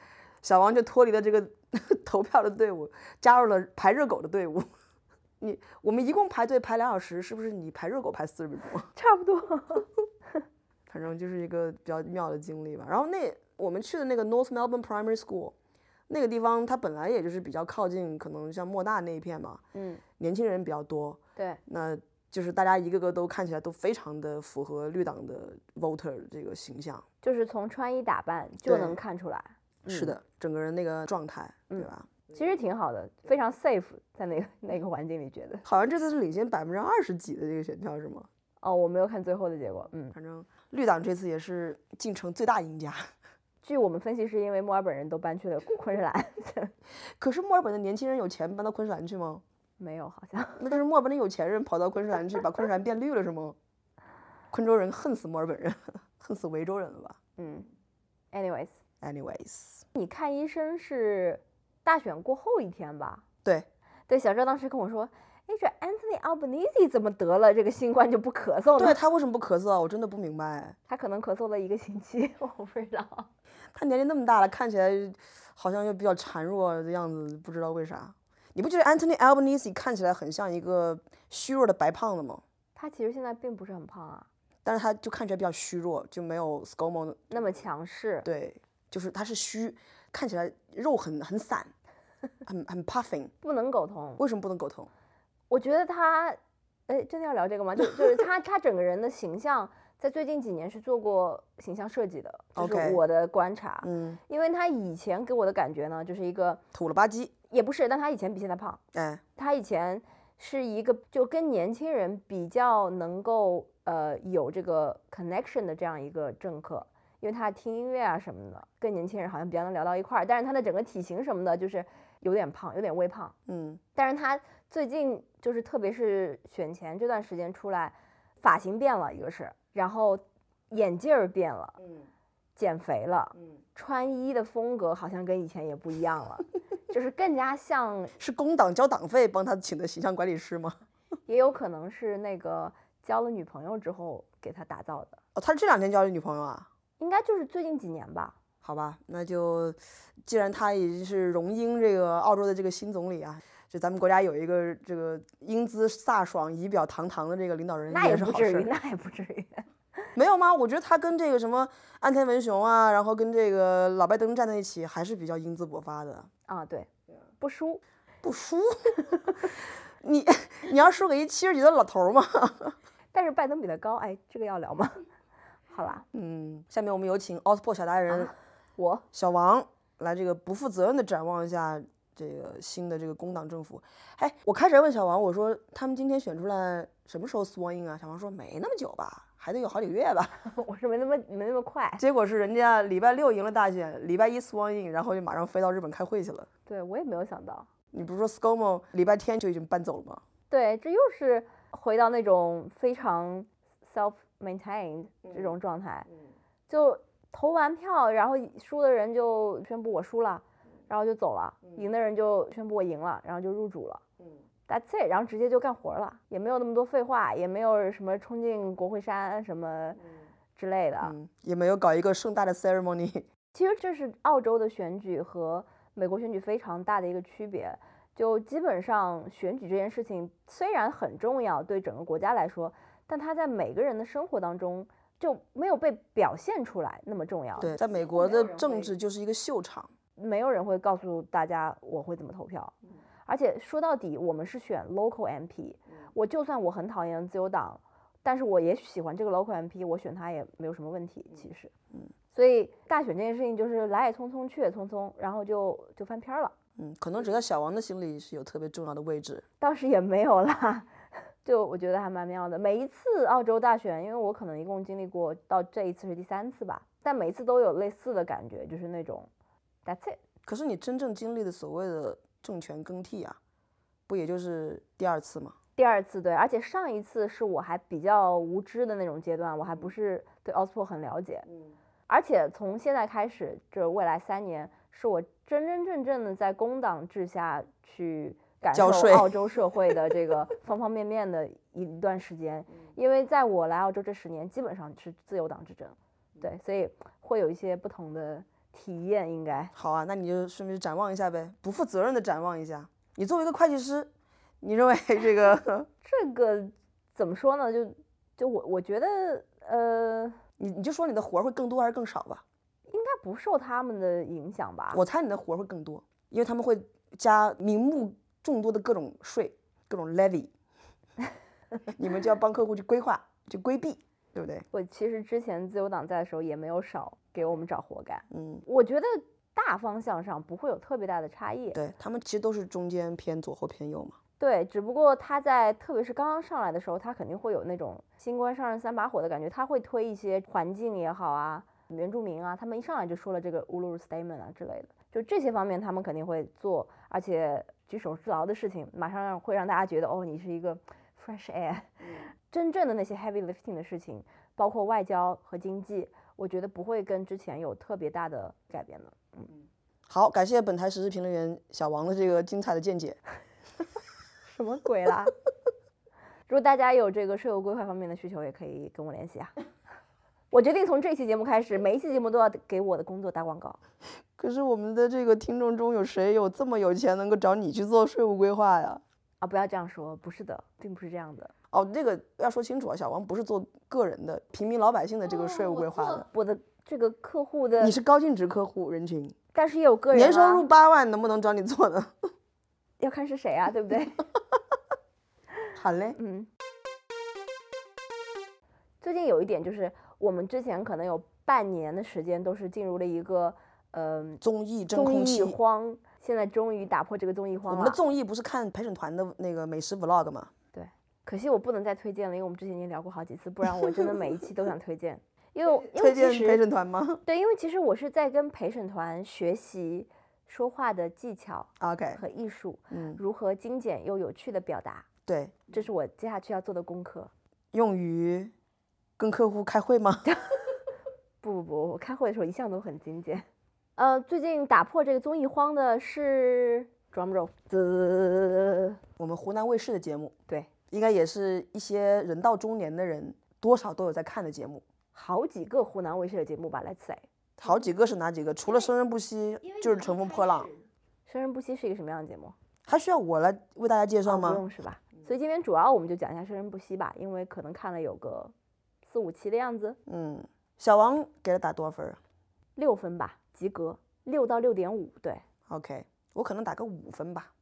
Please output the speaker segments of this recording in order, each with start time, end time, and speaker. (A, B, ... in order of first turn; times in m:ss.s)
0:00.4-0:04.7 A
0:05.4-0:08.9 A
0:09.0-0:09.9 B
0:10.9-0:15.6 A
0:16.1-0:19.6 A
0:19.7-0:20.0 B
0:20.2-0:27.0 A
0:21.4-0:21.6 B
0:27.2-0:30.2 B
0:28.6-0:29.0 A
0:29.9-0:32.2 A
0:31.7-0:35.6 B
0:35.6-0:38.3 A
0:38.6-0:40.1 B
0:40.1-0:43.0 A
0:43.6-0:46.7 B
0:47.2-0:49.4 A
0:49.8-0:50.8 B
0:50.6-0:53.6 A
0:54.5-0:57.2 A
0:57.4-0:57.7 B
0:58.3-0:58.8 B
0:59.0-0:59.8 A
1:00.0-1:03.2 B
1:04.1-1:09.0 B
1:08.8-1:10.8 A
1:10.9-1:13.3 B
1:13.7-1:22.4 A
1:22.8-1:24.3 B
1:24.6-1:27.5 A
1:27.3-1:28.3 B
1:28.2-1:31.7 A
1:32.4-1:33.3 A
1:33.4-1:34.2 B
1:34.2-1:34.9 A
1:35.5-1:46.6 B
1:42.6-1:43.0 A
1:43.8-1:44.2 A
1:46.7-1:47.3 A
1:47.5-1:48.8 B
1:48.9-1:49.2 A
1:49.4-2:03.3 B
2:03.5-2:03.8 A
2:04.0-2:11.8 B
2:12.6-2:18.1 B
2:18.2-2:20.8 A
2:21.3-2:25.2 B
2:25.3-2:26.7 A
2:27.0-2:28.4 B
2:28.6-2:38.7 A
2:37.9-2:39.6 B
2:40.1-2:46.3 A
2:46.5-2:47.8 B
2:48.2-2:52.8 A
2:53.1-2:55.0 B
2:55.7-2:56.0 B
2:56.1-2:58.3 A
2:58.1-2:59.0 B
2:59.1-3:10.4 A
3:10.4-3:12.0 B
3:12.0-3:16.5 A
3:16.7-3:17.7 B
3:17.9-3:20.2 A
3:20.5-3:26.1 B
3:26.7-3:34.0 B
3:34.7-3:40.0 B
3:40.6-3:41.1 B
3:41.0-3:43.3 A
3:43.5-3:58.9 B
3:57.6-3:59.9 A
4:00.2-4:02.7 B
4:03.3-4:11.7 B
4:12.3-4:16.5 B
4:16.8-4:19.4 A
4:19.6-4:20.9 B
4:21.4-4:29.3 B
4:29.8-4:30.2 B
4:30.4-4:33.4 A
4:34.1-4:35.6 A
4:35.8-4:41.5 B
4:42.1-4:59.7 B
4:48.7-4:49.3 A
4:59.7-5:04.1 A
5:04.6-5:05.9 A
5:06.0-5:10.4 B
5:10.6-5:12.4 A
5:12.9-5:15.0 B
5:14.9-5:20.5 A
5:21.9-5:24.7 A
5:24.7-5:31.8 B
5:28.3-5:28.6 A
5:31.7-5:34.2 A
5:34.4-5:59.5 B
6:00.1-6:03.2 A
6:04.4-6:05.3 B
6:06.5-6:09.5 B
6:10.5-6:13.8 B
6:14.4-6:19.0 A
6:19.4-6:21.5 B
6:21.7-6:26.3 A
6:25.3-6:28.0 B
6:27.8-6:29.4 A
6:29.5-6:30.7 B
6:30.1-6:32.1 A
6:33.0-6:34.2 B
6:35.7-6:36.2 A
6:36.2-6:36.5 B
6:39.0-6:48.0 B
6:44.4-6:45.6 A
6:47.7-6:50.5 A
6:50.7-6:56.6 B
6:55.7-6:57.2 A
6:57.2-7:05.1 B
7:01.8-7:02.2 A
7:02.9-7:03.2 A
7:05.3-7:05.7 A
7:05.7-7:07.3 B
7:07.7-7:08.5 A
7:09.2-7:10.4 A
7:11.4-7:13.4 B
7:14.0-7:19.0 B
7:19.2-7:20.3 A
7:20.9-7:24.8 A
7:25.1-7:27.7 B
7:27.6-7:30.7 A
7:29.6-7:32.6 B
7:32.9-7:34.6 A
7:34.3-7:40.0 B
7:40.1-7:42.2 A
7:42.8-7:45.4 B
7:45.7-7:47.5 A